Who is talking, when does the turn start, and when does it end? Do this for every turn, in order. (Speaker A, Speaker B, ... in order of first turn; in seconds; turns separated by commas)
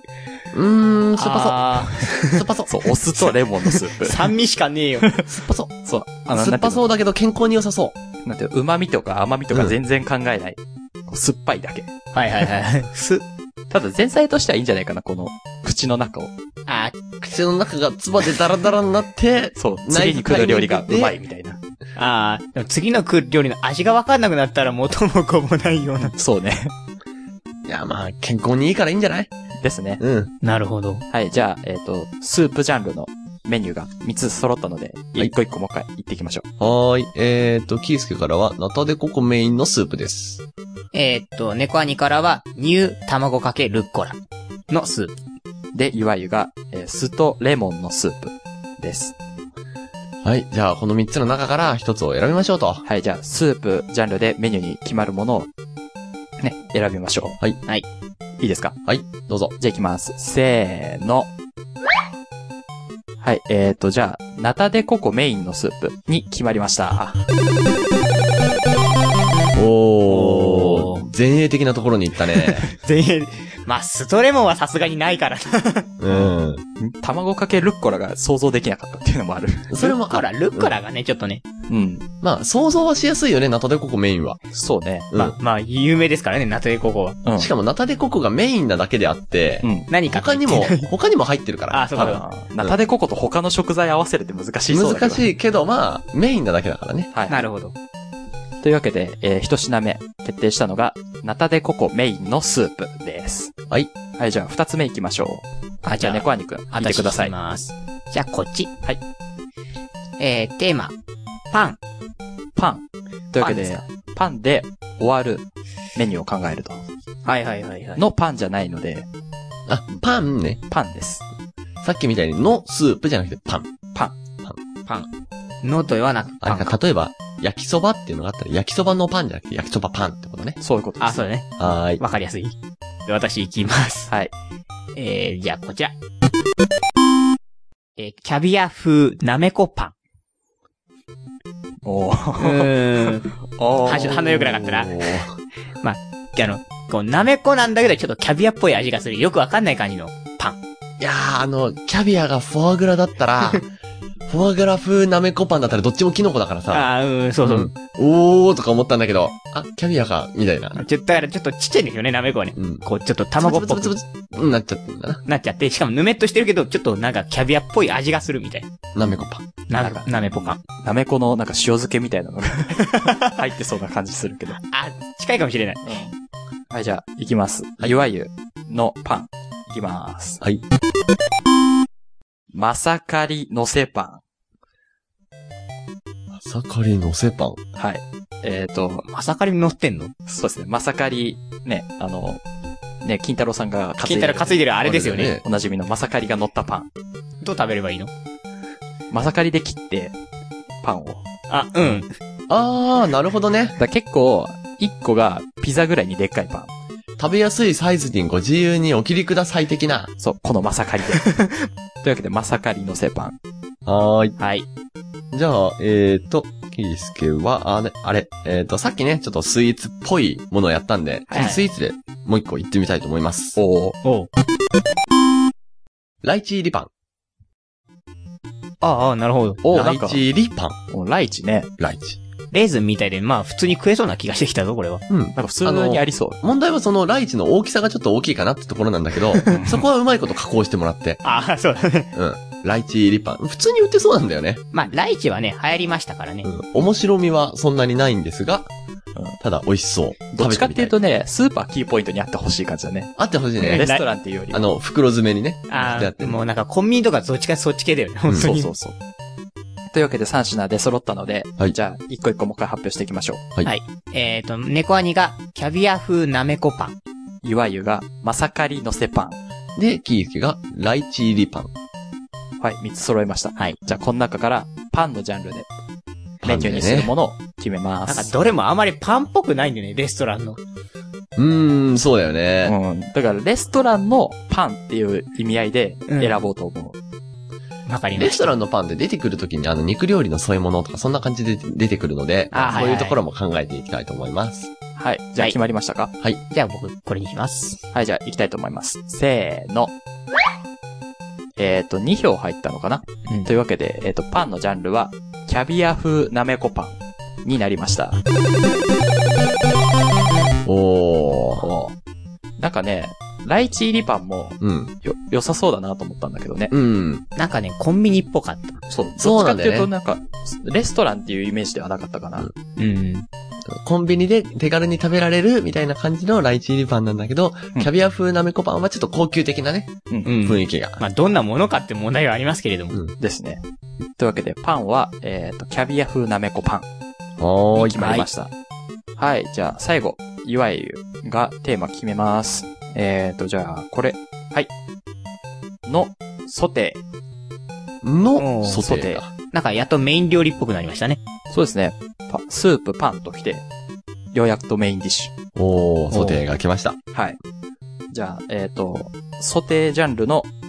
Speaker A: 0.5-1.7, Speaker B: 1.2-2.4, Speaker A: 2.3-2.9, Speaker C: 2.7-4.3, Speaker B: 3.9-5.1, Speaker C: 5.0-6.8, Speaker A: 5.3-5.7, Speaker A: 6.3-7.9, Speaker C: 8.2-11.9, Speaker B: 12.1-13.2, Speaker C: 13.7-16.3, Speaker B: 16.7-17.0, Speaker A: 17.2-21.2, Speaker C: 19.6-21.6, Speaker B: 22.0-26.1, Speaker C: 26.1-26.7, Speaker A: 27.6-29.3, Speaker C: 29.6-30.0, Speaker A: 30.0-30.3, Speaker B: 30.4-31.0, Speaker C: 31.1-36.5, Speaker A: 36.6-40.4, Speaker B: 40.9-44.2, Speaker B: 44.7-45.1, Speaker C: 45.7-49.1, Speaker A: 50.2-52.8, Speaker C: 52.9-55.5, Speaker C: 56.4-57.4, Speaker C: 58.4-58.8, Speaker A: 58.9-59.5, Speaker C: 59.6-61.3, Speaker C: 63.2-67.2, Speaker A: 69.5-72.7, Speaker B: 70.1-71.0, Speaker B: 72.5-75.9, Speaker A: 76.0-76.6, Speaker C: 76.1-79.8, Speaker A: 79.7-80.8, Speaker B: 79.8-81.4, Speaker C: 81.7-82.1, Speaker A: 82.2-84.4, Speaker C: 84.5-85.1, Speaker A: 85.1-85.4, Speaker B: 85.2-87.2, Speaker C: 87.2-87.5, Speaker A: 87.4-92.8, Speaker C: 89.6-89.9, Speaker B: 89.9-90.9, Speaker B: 91.7-92.2, Speaker C: 92.0-95.3, Speaker A: 94.7-97.1, Speaker C: 97.1-97.4, Speaker B: 97.3-97.7, Speaker C: 98.6-103.5, Speaker C: 104.2-105.5, Speaker B: 105.8-108.7, Speaker C: 106.0-107.3, Speaker B: 110.2-111.0, Speaker B: 111.5-111.8, Speaker C: 112.6-116.8, Speaker B: 113.4-113.8, Speaker B: 117.2-118.0, Speaker C: 118.0-119.1, Speaker A: 119.7-120.6, Speaker C: 120.7-121.2, Speaker A: 121.8-123.7, Speaker B: 125.6-126.8, Speaker A: 126.4-130.6, Speaker C: 130.6-131.2, Speaker B: 131.0-134.1, Speaker A: 131.6-132.0, Speaker B: 134.9-135.9, Speaker B: 138.0-139.9, Speaker C: 141.8-142.7, Speaker B: 142.4-143.3, Speaker C: 143.5-144.5, Speaker B: 143.8-145.1, Speaker A: 144.4-145.3, Speaker B: 145.8-150.6, Speaker A: 151.0-153.7, Speaker A: 154.3-156.9, Speaker B: 156.7-157.7, Speaker A: 157.4-160.8, Speaker B: 160.8-163.9, Speaker A: 162.6-162.8, Speaker A: 163.4-165.2, Speaker B: 165.3-168.7, Speaker A: 168.9-169.4, Speaker B: 169.7-170.6, Speaker C: 169.8-174.6, Speaker B: 172.9-173.3, Speaker B: 174.7-175.8, Speaker C: 175.8-176.1, Speaker C: 176.7-180.4, Speaker C: 182.5-184.2, Speaker A: 186.3-187.6, Speaker C: 187.8-189.1, Speaker B: 189.1-190.1, Speaker C: 190.3-192.4, Speaker C: 193.0-194.6, Speaker B: 194.0-195.3, Speaker A: 194.8-195.4, Speaker C: 195.4-196.9, Speaker B: 197.4-198.1, Speaker C: 199.1-200.2, Speaker C: 200.8-201.2, Speaker B: 201.5-202.1, Speaker A: 202.5-203.8, Speaker C: 203.8-206.7, Speaker A: 207.2-210.1, Speaker C: 210.2-211.3, Speaker B: 211.2-211.7, Speaker C: 212.0-213.4, Speaker A: 213.8-214.4, Speaker B: 214.4-214.7, Speaker A: 215.3-223.6, Speaker B: 221.3-221.6, Speaker C: 223.6-224.0, Speaker B: 224.0-224.3, Speaker A: 226.2-226.9, Speaker B: 228.8-229.6, Speaker C: 229.6-230.2, Speaker A: 229.7-230.8, Speaker C: 230.9-231.7, Speaker A: 231.8-232.2, Speaker B: 232.5-235.0, Speaker A: 235.1-241.2, Speaker C: 235.4-236.4, Speaker C: 239.5-239.8, Speaker B: 241.2-242.1, Speaker A: 242.1-244.7, Speaker B: 244.7-246.5, Speaker A: 246.4-248.7, Speaker A: 249.4-250.9, Speaker C: 250.3-254.6, Speaker A: 253.2-253.8, Speaker B: 253.6-254.0, Speaker A: 254.5-256.4, Speaker B: 255.7-258.7, Speaker C: 258.4-259.0, Speaker C: 259.9-263.4, Speaker B: 263.6-267.0, Speaker C: 267.4-269.4, Speaker A: 269.8-271.7, Speaker C: 272.6-275.7, Speaker A: 276.4-277.1, Speaker C: 276.4-278.3, Speaker B: 278.1-280.6, Speaker A: 281.4-282.8, Speaker C: 282.6-287.0, Speaker B: 286.1-286.4, Speaker B: 287.9-288.5, Speaker A: 288.2-294.7, Speaker B: 292.5-293.2, Speaker C: 295.0-296.1, Speaker B: 296.5-297.8, Speaker C: 297.9-299.9, Speaker C: 301.6-308.2, Speaker A: 310.7-311.7, Speaker C: 311.6-311.9, Speaker C: 312.6-316.7, Speaker A: 314.6-314.9, Speaker A: 316.7-317.2, Speaker B: 317.4-318.8, Speaker C: 318.9-322.5, Speaker A: 319.2-319.9, Speaker B: 322.8-323.3, Speaker A: 323.7-331.0, Speaker B: 330.2-333.0, Speaker C: 333.2-333.6, Speaker C: 334.1-336.9, Speaker A: 337.4-338.0, Speaker C: 337.7-338.5, Speaker B: 338.0-338.3, Speaker C: 339.2-344.7, Speaker C: 345.9-347.0, Speaker A: 348.0-349.3, Speaker B: 348.4-348.8, Speaker C: 348.8-349.2, Speaker B: 349.5-351.2, Speaker C: 351.5-353.7, Speaker C: 354.3-355.3, Speaker A: 355.6-357.0, Speaker B: 356.1-356.4, Speaker C: 357.1-357.4, Speaker C: 358.1-360.5